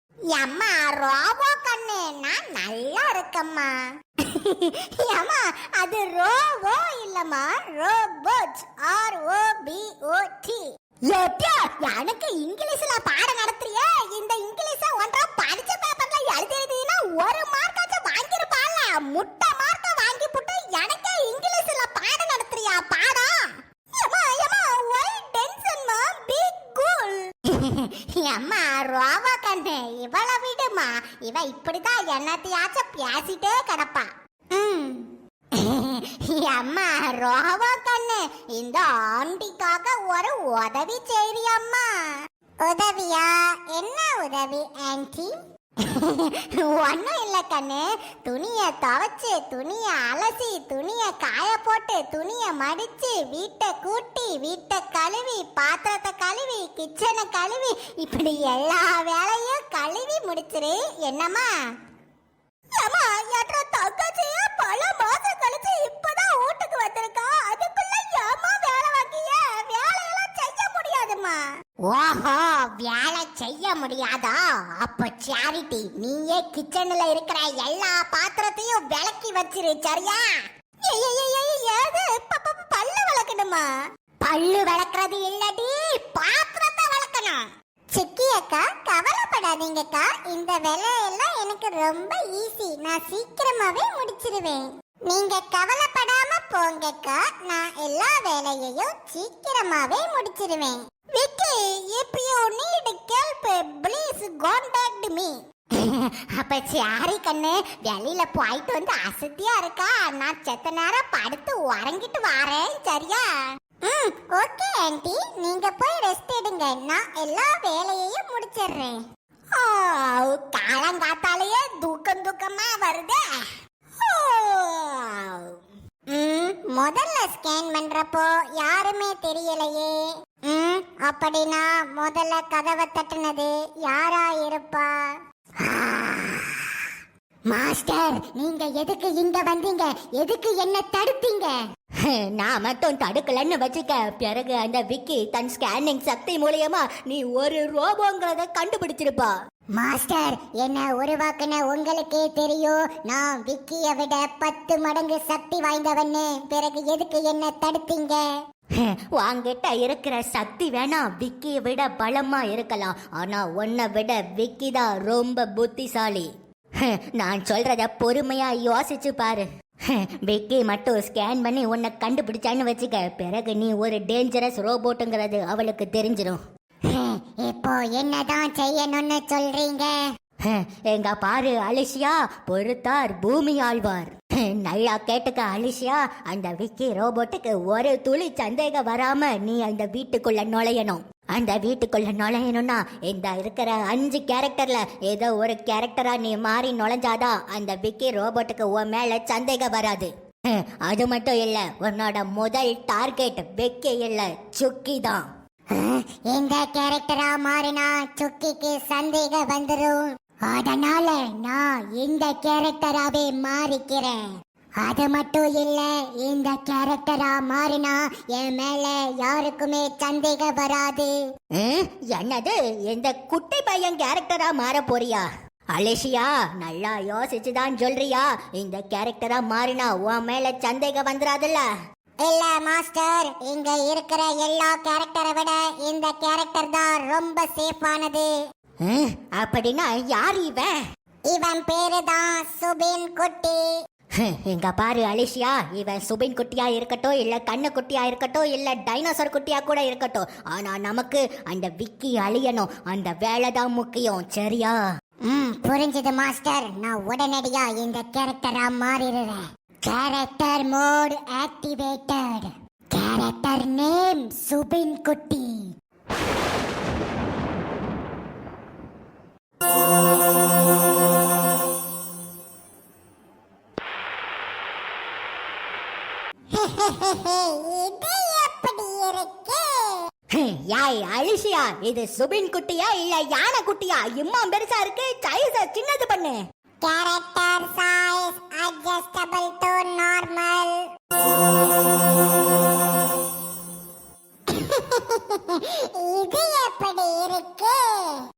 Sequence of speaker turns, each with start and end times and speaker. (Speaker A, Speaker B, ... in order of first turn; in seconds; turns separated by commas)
Speaker A: 0.3-41.9, Speaker A: 42.6-45.3, Speaker A: 45.8-61.5, Speaker A: 62.8-83.7, Speaker A: 84.2-113.3, Speaker A: 113.8-119.0, Speaker A: 119.5-125.6, Speaker A: 126.1-136.8, Speaker A: 137.5-141.6, Speaker B: 142.4-149.3, Speaker A: 145.9-146.3, Speaker A: 149.8-158.3, Speaker B: 159.2-166.3, Speaker A: 164.4-165.1, Speaker B: 167.2-169.4, Speaker B: 170.3-176.4, Speaker A: 172.4-172.8, Speaker A: 173.3-173.7, Speaker A: 176.9-180.0, Speaker B: 180.5-184.1, Speaker B: 184.7-193.3, Speaker A: 186.6-186.9, Speaker A: 190.0-197.0, Speaker B: 193.8-200.1, Speaker A: 198.3-199.9, Speaker B: 200.9-205.2, Speaker A: 205.7-214.3, Speaker A: 214.8-221.2, Speaker B: 221.6-231.6, Speaker A: 223.0-224.2, Speaker A: 231.0-231.3, Speaker A: 232.2-238.3, Speaker B: 238.9-240.7, Speaker A: 240.2-240.5, Speaker A: 241.3-243.6, Speaker B: 244.3-254.8, Speaker A: 248.3-248.8, Speaker A: 255.3-265.7, Speaker A: 276.5-280.1, Speaker A: 280.7-281.5, Speaker B: 281.5-283.0, Speaker A: 282.1-286.2, Speaker B: 285.1-286.4, Speaker A: 286.8-290.8, Speaker A: 294.5-298.2